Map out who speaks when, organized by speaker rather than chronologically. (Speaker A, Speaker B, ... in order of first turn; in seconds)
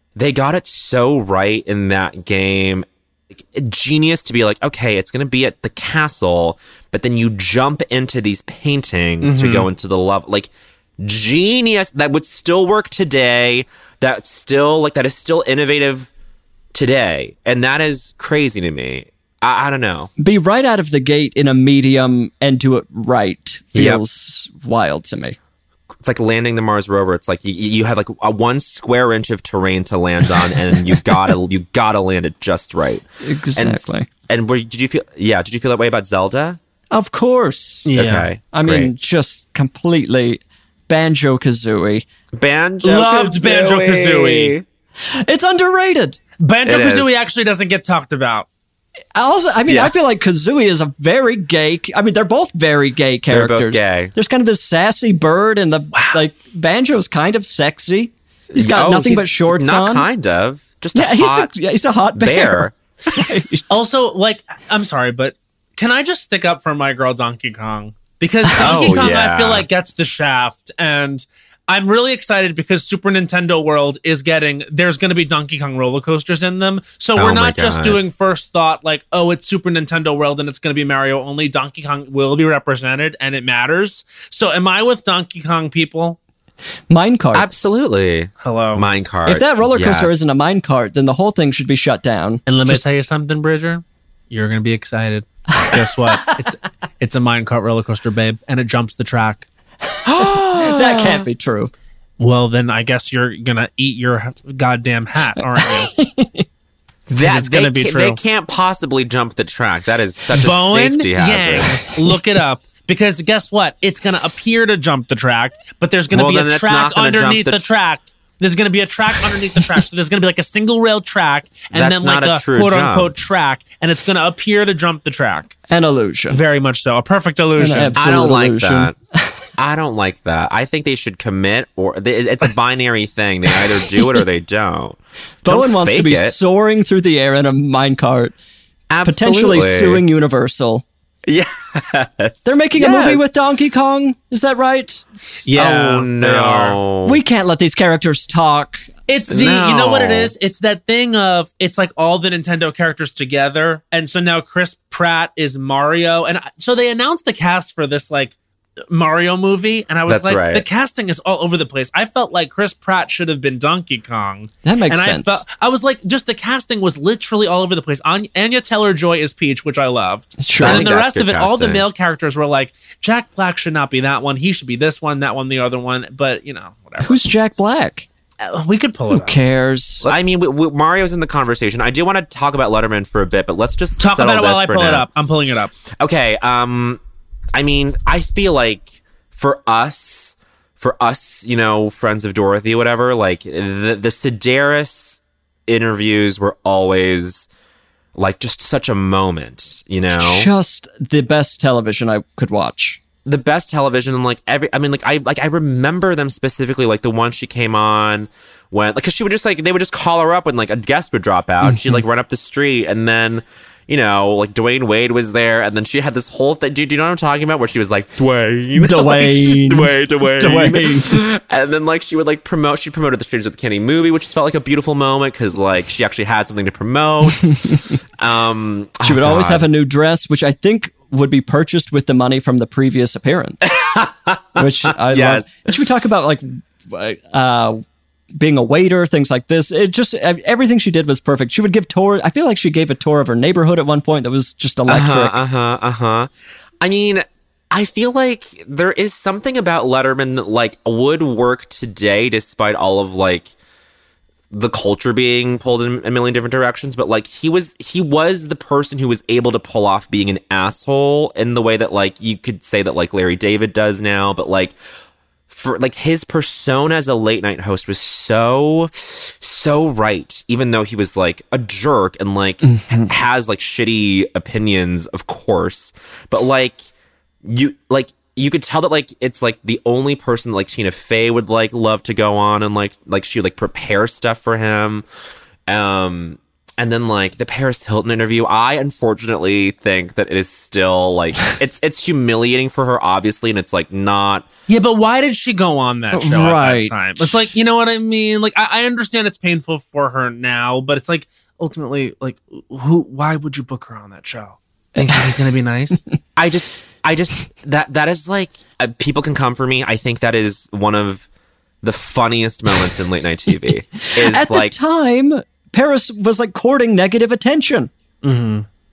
Speaker A: 0.1-16.1, 16.7-20.1, 23.8-24.0, 26.0-33.0, 33.6-36.6, 37.9-38.9, 42.3-44.6, 46.6-47.1, 49.6-49.9, 53.3-54.1, 58.5-61.5, 62.1-62.8, 68.5-69.7, 77.2-78.0, 87.3-90.3, 100.1-101.2, 107.1-111.9, 116.1-117.7, 121.7-123.1, 128.0-128.9, 129.6-136.4, 138.9-140.0, 141.2-143.3, 145.5-147.2, 149.3-150.3, 160.1-160.7, 170.6-171.9, 180.0-185.1, 185.9-187.0, 187.5-197.5, 198.2-200.5, 203.2-229.7, 233.7-235.7, 244.9-246.3, 246.8-253.5, 254.5-264.8, 265.5-276.9, 277.4-285.0, 285.7-294.5, 306.4-311.3, 311.8-314.7
Speaker B: 9.2-9.7, 37.9-38.3, 42.8-44.6, 46.4-48.5, 55.9-56.2, 63.7-86.2, 88.4-88.8, 92.5-99.5, 102.2-105.9, 107.2-108.2, 110.3-125.5, 126.3-128.0, 145.4-146.8, 149.1-158.3, 158.9-177.2, 178.4-179.3, 184.0-185.7, 294.7-306.0, 318.2-318.7
Speaker C: 20.2-25.4, 33.2-34.1, 36.9-37.9, 38.5-42.1, 45.1-46.2, 49.1-60.1, 60.9-63.8, 86.9-87.7, 89.3-92.8, 95.5-96.3, 100.2-101.7, 105.5-106.4, 125.7-126.4, 127.6-129.5, 133.9-134.2, 135.4-138.3, 139.0-140.8, 142.4-145.5, 147.1-148.9, 164.6-165.4, 170.4-170.9, 177.0-178.1, 179.1-180.1, 200.1-203.0, 211.6-212.0, 218.8-221.3, 227.3-228.0, 229.0-233.7, 234.6-245.4, 272.6-273.1, 296.1-297.5, 314.1-317.9